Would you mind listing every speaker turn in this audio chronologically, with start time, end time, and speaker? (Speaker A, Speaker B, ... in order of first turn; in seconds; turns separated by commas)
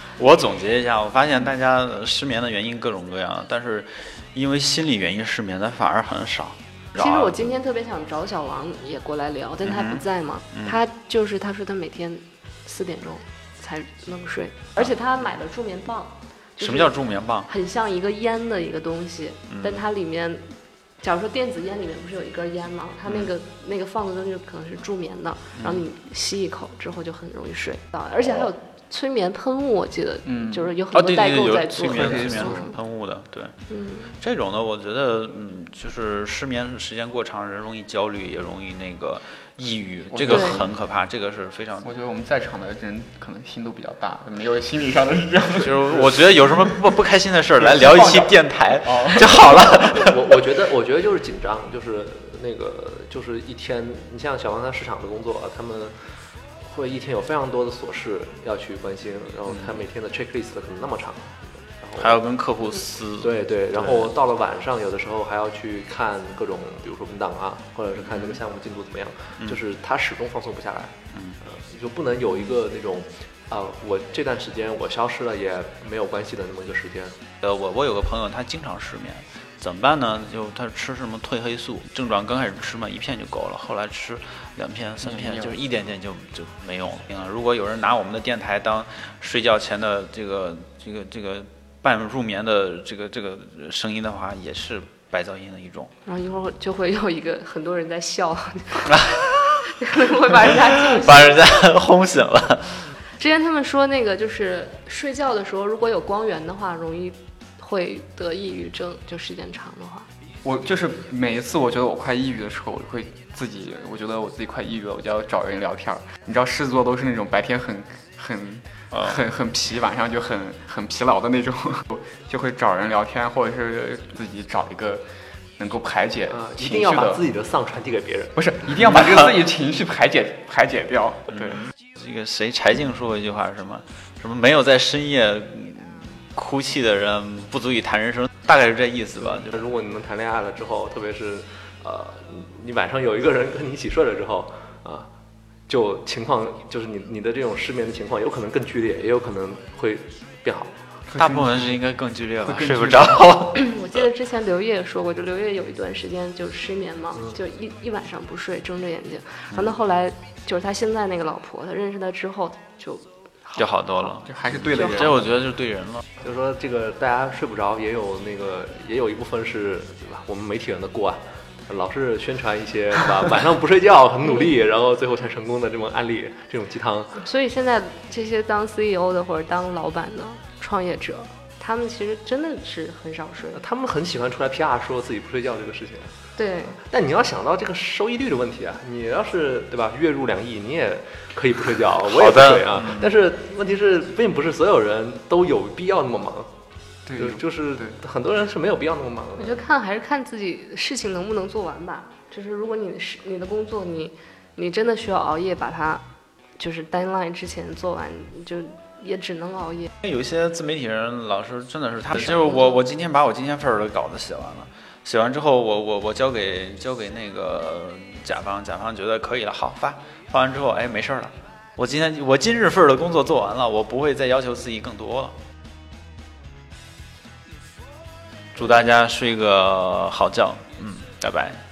Speaker A: 0.1-7.5, Speaker B: 7.0-32.8, Speaker A: 9.6-10.8, Speaker A: 16.6-17.5, Speaker A: 19.5-19.8, Speaker A: 25.6-25.8, Speaker C: 30.2-30.7, Speaker A: 30.9-33.5, Speaker C: 31.8-32.7, Speaker B: 33.7-34.1, Speaker A: 34.2-41.9, Speaker C: 40.1-40.7, Speaker B: 40.3-40.6, Speaker C: 41.8-46.8, Speaker A: 45.6-50.2, Speaker C: 47.6-49.7, Speaker D: 49.8-62.2, Speaker A: 62.0-64.1, Speaker D: 63.2-77.2, Speaker A: 68.1-68.4, Speaker A: 71.1-71.4, Speaker A: 77.4-95.9, Speaker C: 85.1-85.5, Speaker B: 96.0-101.5, Speaker A: 100.8-102.9, Speaker B: 103.2-110.1, Speaker C: 110.4-125.1, Speaker C: 125.6-127.2, Speaker D: 126.3-128.4, Speaker C: 128.4-131.6, Speaker A: 132.0-139.7, Speaker D: 139.2-145.1, Speaker D: 145.7-150.8, Speaker C: 151.1-151.8, Speaker A: 151.2-153.7, Speaker C: 152.4-153.4, Speaker B: 153.5-164.2, Speaker A: 163.6-166.0, Speaker C: 164.2-165.3, Speaker B: 164.7-165.1, Speaker D: 166.2-177.2, Speaker B: 177.2-183.6, Speaker D: 183.5-186.1, Speaker B: 186.4-186.8, Speaker D: 186.8-196.5, Speaker A: 192.1-193.1, Speaker C: 197.1-198.0, Speaker D: 197.1-199.6, Speaker B: 199.4-206.0, Speaker B: 206.6-209.9, Speaker A: 210.0-225.4, Speaker B: 212.2-212.8, Speaker A: 228.5-231.6